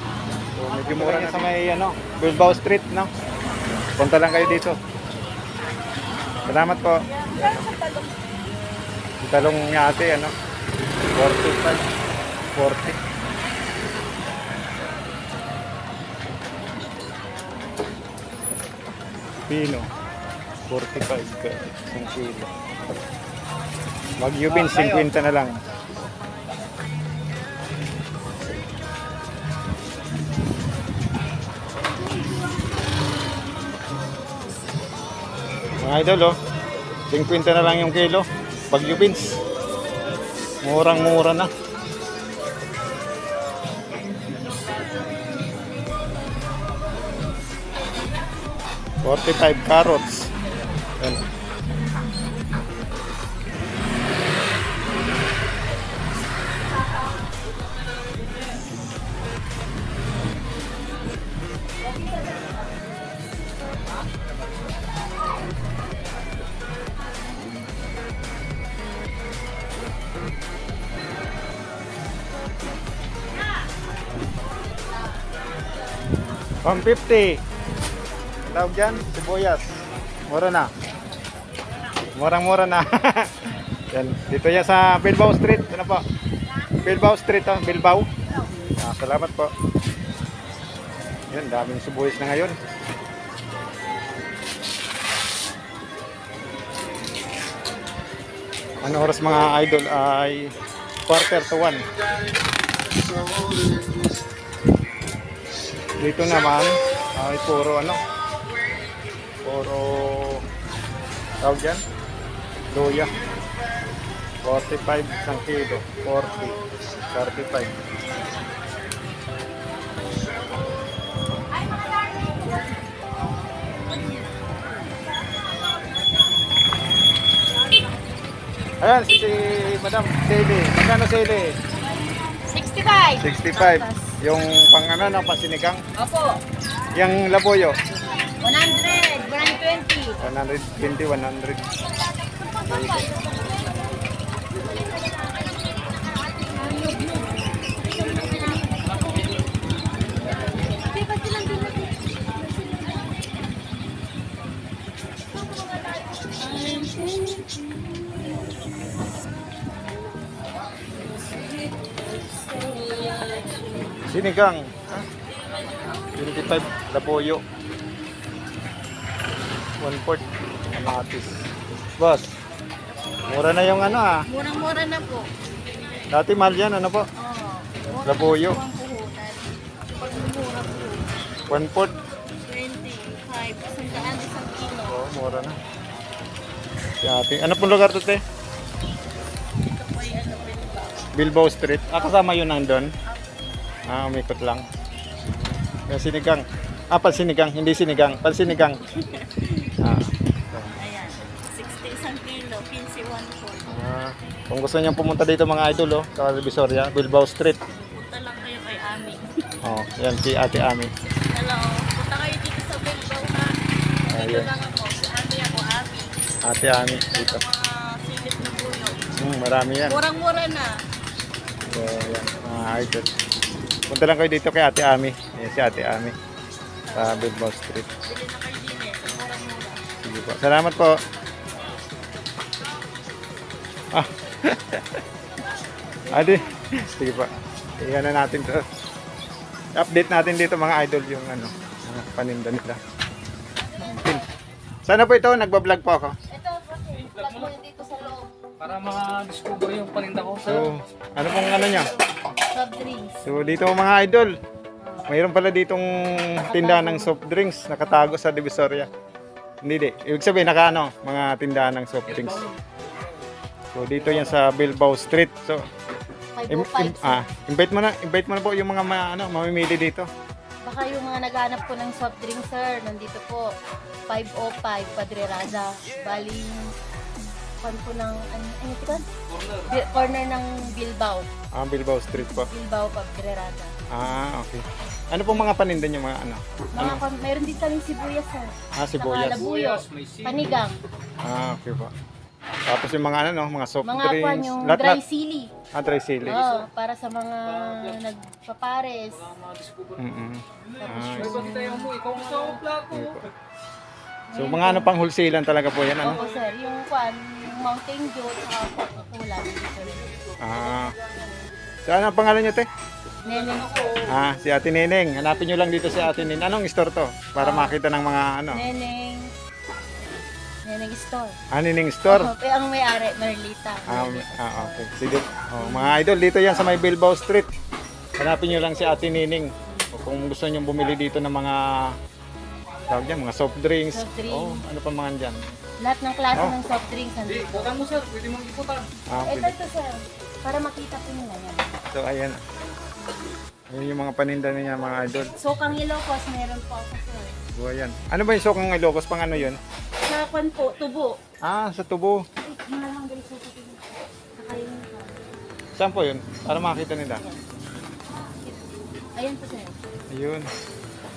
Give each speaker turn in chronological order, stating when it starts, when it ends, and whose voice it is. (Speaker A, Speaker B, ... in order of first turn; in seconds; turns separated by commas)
Speaker A: 0.6-3.1, Speaker B: 0.9-1.2, Speaker A: 4.0-4.8, Speaker A: 6.5-7.7, Speaker B: 7.3-8.1, Speaker A: 9.2-10.3, Speaker A: 11.1-11.8, Speaker A: 12.6-13.0, Speaker A: 19.5-19.9, Speaker A: 20.7-22.5, Speaker A: 24.2-25.6, Speaker A: 35.8-36.4, Speaker A: 37.1-39.4, Speaker A: 40.6-41.5, Speaker A: 49.0-50.3, Speaker A: 76.6-77.4, Speaker A: 78.5-80.7, Speaker A: 82.2-83.3, Speaker A: 83.9-86.0, Speaker A: 86.8-88.1, Speaker A: 88.8-89.5, Speaker A: 91.3-92.6, Speaker A: 98.8-100.5, Speaker A: 101.1-101.8, Speaker A: 106.0-108.0, Speaker A: 109.4-110.4, Speaker A: 111.4-111.8, Speaker A: 112.7-113.1, Speaker A: 114.4-116.6, Speaker A: 117.1-117.7, Speaker B: 121.6-122.6, Speaker A: 128.8-131.5, Speaker B: 132.5-134.2, Speaker A: 133.2-135.8, Speaker A: 136.9-137.8, Speaker B: 138.4-140.2, Speaker A: 140.2-141.6, Speaker B: 142.2-143.7, Speaker A: 142.7-143.1, Speaker B: 144.5-149.3, Speaker B: 150.5-153.0, Speaker B: 156.1-157.9, Speaker B: 162.3-164.0, Speaker A: 164.1-165.1, Speaker A: 166.1-167.4, Speaker A: 169.8-171.4, Speaker A: 172.0-172.3, Speaker A: 173.3-174.2, Speaker B: 174.3-175.3, Speaker A: 176.1-177.1, Speaker B: 177.2-181.1, Speaker A: 178.0-178.6, Speaker A: 181.5-181.9, Speaker B: 182.4-185.0, Speaker A: 184.8-185.6, Speaker A: 187.0-188.2, Speaker B: 189.7-190.9, Speaker A: 191.1-192.9, Speaker A: 193.9-194.6, Speaker A: 195.3-198.8, Speaker A: 199.8-200.7, Speaker B: 200.8-203.7, Speaker A: 203.7-207.6, Speaker B: 207.8-209.2, Speaker A: 209.6-210.9, Speaker B: 211.3-213.5, Speaker B: 214.1-216.1, Speaker A: 214.1-214.5, Speaker A: 216.4-217.4, Speaker B: 217.1-218.9, Speaker A: 219.2-220.0, Speaker B: 219.9-220.7, Speaker A: 221.7-223.1, Speaker A: 223.9-226.1, Speaker B: 226.9-227.3, Speaker A: 226.9-227.9, Speaker B: 228.1-229.8, Speaker A: 230.0-230.9, Speaker A: 233.9-235.0, Speaker B: 236.1-236.4, Speaker A: 236.1-238.6, Speaker A: 239.8-242.8, Speaker B: 243.6-244.2, Speaker A: 243.8-244.2, Speaker A: 244.8-246.1, Speaker B: 246.3-248.3, Speaker C: 246.9-247.5, Speaker C: 248.6-250.7, Speaker A: 250.4-251.9, Speaker B: 251.5-251.9, Speaker B: 252.5-253.6, Speaker A: 253.2-254.3, Speaker A: 255.1-258.9, Speaker B: 256.4-257.1, Speaker A: 259.6-262.4, Speaker C: 262.1-262.6, Speaker A: 263.7-265.6, Speaker C: 264.0-264.4, Speaker B: 266.4-267.2, Speaker A: 266.5-270.1, Speaker B: 270.6-273.5, Speaker B: 274.1-276.7, Speaker B: 277.6-279.0, Speaker C: 279.3-279.7, Speaker B: 279.7-281.3, Speaker A: 281.5-282.5, Speaker B: 282.4-283.7, Speaker A: 283.9-287.0, Speaker B: 286.8-290.8, Speaker A: 288.8-289.5, Speaker C: 289.2-290.6, Speaker A: 291.2-291.9, Speaker A: 292.7-295.0, Speaker B: 293.8-295.5, Speaker A: 295.7-296.4, Speaker B: 296.2-299.2, Speaker C: 296.3-296.6, Speaker C: 297.5-298.0, Speaker C: 299.2-300.1, Speaker A: 300.0-301.4, Speaker C: 300.6-303.3, Speaker B: 300.8-302.6, Speaker A: 302.9-303.2, Speaker B: 304.3-304.9, Speaker A: 304.3-306.2, Speaker B: 306.0-310.1, Speaker A: 310.4-310.9, Speaker A: 311.9-312.7, Speaker B: 313.2-314.0, Speaker A: 314.1-318.6, Speaker B: 317.4-317.8, Speaker B: 318.5-319.3, Speaker B: 320.6-321.4, Speaker A: 321.5-322.3, Speaker B: 322.1-324.8, Speaker A: 323.9-327.5, Speaker B: 325.6-325.9, Speaker A: 328.2-331.9, Speaker A: 332.9-335.4, Speaker B: 333.9-334.6, Speaker B: 335.8-337.7, Speaker C: 337.2-338.9, Speaker A: 339.1-339.6, Speaker B: 339.2-341.7, Speaker A: 341.9-342.4, Speaker A: 343.7-345.3, Speaker B: 345.3-347.4, Speaker A: 347.5-349.6, Speaker B: 350.0-351.2, Speaker A: 351.4-352.2, Speaker B: 352.4-355.2, Speaker A: 355.8-357.2, Speaker B: 358.3-359.7, Speaker A: 360.1-360.5